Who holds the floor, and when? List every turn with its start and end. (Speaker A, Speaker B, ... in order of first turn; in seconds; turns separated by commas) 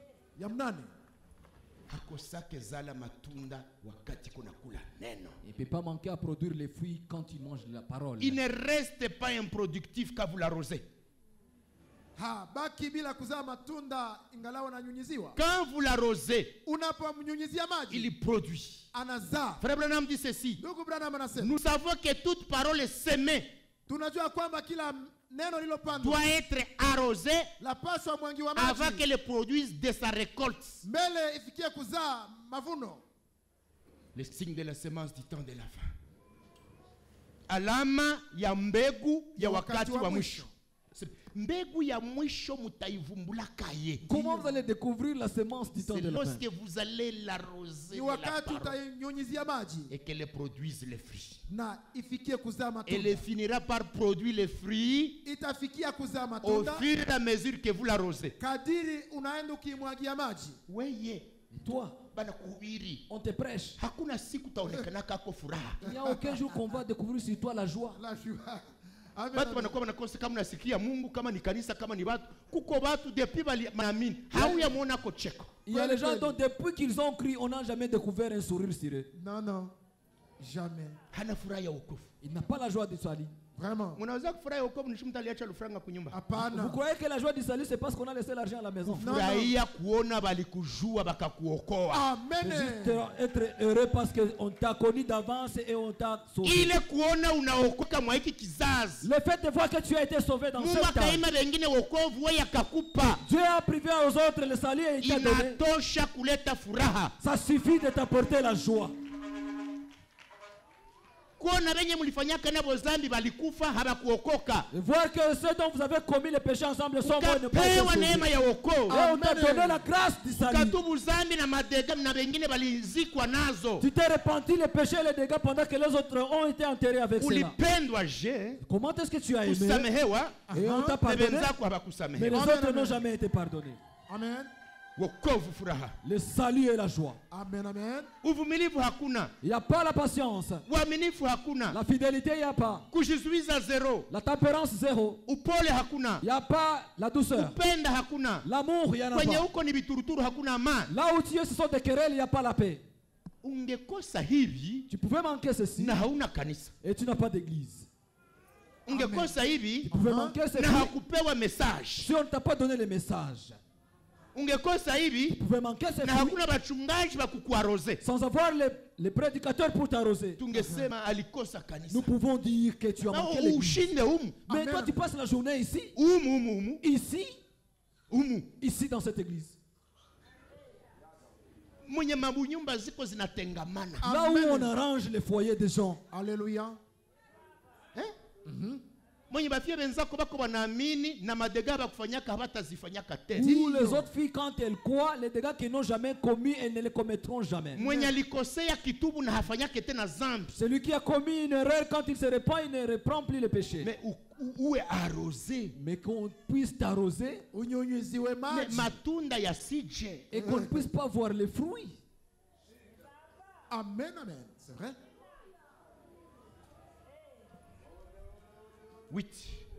Speaker A: 0.3-0.9, Speaker B: 1.9-5.3, Speaker C: 5.4-8.4, Speaker B: 8.2-10.8, Speaker A: 12.2-15.4, Speaker B: 15.3-16.6, Speaker A: 16.6-18.1, Speaker B: 17.9-18.9, Speaker A: 18.9-19.6, Speaker B: 19.6-20.6, Speaker A: 20.6-21.5, Speaker B: 21.4-23.5, Speaker A: 23.9-26.3, Speaker B: 26.0-27.5, Speaker A: 27.6-29.1, Speaker B: 28.5-30.8, Speaker A: 30.8-33.0, Speaker B: 34.1-35.9, Speaker B: 37.5-44.0, Speaker A: 39.4-40.5, Speaker A: 44.0-44.6, Speaker C: 44.0-46.4, Speaker B: 45.8-48.8, Speaker A: 47.9-49.9, Speaker B: 49.9-51.4, Speaker A: 51.5-53.2, Speaker B: 52.9-55.2, Speaker A: 55.2-56.9, Speaker B: 56.4-58.3, Speaker A: 58.4-60.6, Speaker B: 60.7-61.3, Speaker C: 61.5-62.0, Speaker B: 62.1-63.0, Speaker C: 63.1-63.8, Speaker B: 63.8-65.9, Speaker C: 65.8-68.0, Speaker A: 65.8-66.6, Speaker A: 67.9-68.6, Speaker A: 69.2-69.8, Speaker B: 69.3-75.6, Speaker A: 74.3-74.8, Speaker C: 75.7-79.1, Speaker A: 75.7-76.4, Speaker A: 79.1-79.7, Speaker A: 80.4-81.0, Speaker B: 81.1-82.1, Speaker C: 82.2-83.3, Speaker A: 83.6-84.0, Speaker B: 84.0-86.2, Speaker A: 86.1-86.8, Speaker C: 86.3-89.1, Speaker B: 88.8-92.1, Speaker A: 89.0-89.5, Speaker A: 91.9-93.0, Speaker C: 92.4-96.8, Speaker B: 96.4-99.1, Speaker C: 99.0-101.2, Speaker B: 100.6-103.2, Speaker C: 103.2-105.6, Speaker B: 105.0-107.1, Speaker C: 107.2-108.9, Speaker B: 111.4-114.7, Speaker C: 114.7-118.3, Speaker B: 117.0-119.0, Speaker C: 118.9-120.8, Speaker A: 118.9-119.8, Speaker B: 120.3-123.8, Speaker C: 123.8-127.5, Speaker B: 127.2-128.6, Speaker C: 128.6-129.9, Speaker B: 129.4-130.4, Speaker A: 130.5-131.0, Speaker C: 130.5-131.5, Speaker B: 131.0-132.3, Speaker C: 132.1-133.8, Speaker A: 132.3-133.0, Speaker A: 134.1-134.5, Speaker B: 134.9-136.0, Speaker C: 136.0-137.2, Speaker A: 137.3-138.1, Speaker B: 138.2-139.3, Speaker C: 139.4-140.7, Speaker B: 140.7-141.8, Speaker C: 141.7-142.8, Speaker B: 142.9-144.1, Speaker C: 144.1-145.2, Speaker B: 145.2-146.2, Speaker C: 146.2-147.6, Speaker B: 147.3-148.5, Speaker C: 148.4-149.4, Speaker B: 149.1-150.9, Speaker C: 150.9-152.8, Speaker B: 153.4-154.9, Speaker C: 154.9-156.0, Speaker B: 155.8-156.7, Speaker C: 156.8-157.9, Speaker B: 158.9-159.9, Speaker A: 158.9-159.3, Speaker C: 159.8-160.9, Speaker A: 159.9-160.4, Speaker B: 160.5-162.1, Speaker C: 162.0-163.6, Speaker B: 164.3-165.4, Speaker C: 165.3-166.4, Speaker B: 166.0-168.0, Speaker C: 168.0-170.4, Speaker B: 170.4-172.1, Speaker A: 170.6-170.8, Speaker C: 171.9-173.9, Speaker B: 173.0-174.5, Speaker A: 174.5-174.9, Speaker C: 174.5-175.9, Speaker B: 175.9-176.8, Speaker C: 176.8-177.4, Speaker B: 178.1-178.5, Speaker C: 178.6-179.6, Speaker B: 181.8-184.1, Speaker A: 184.0-184.7, Speaker C: 184.0-186.0, Speaker A: 186.1-186.8, Speaker A: 188.4-188.8, Speaker B: 189.3-193.5, Speaker C: 193.3-197.8, Speaker A: 193.4-194.1, Speaker B: 197.7-200.5, Speaker A: 197.8-198.2, Speaker C: 200.5-203.9, Speaker B: 203.8-205.7, Speaker C: 205.7-207.4, Speaker A: 207.5-209.0, Speaker B: 208.5-210.3, Speaker C: 210.3-212.0, Speaker A: 210.3-210.9, Speaker A: 213.7-214.9, Speaker B: 219.1-219.6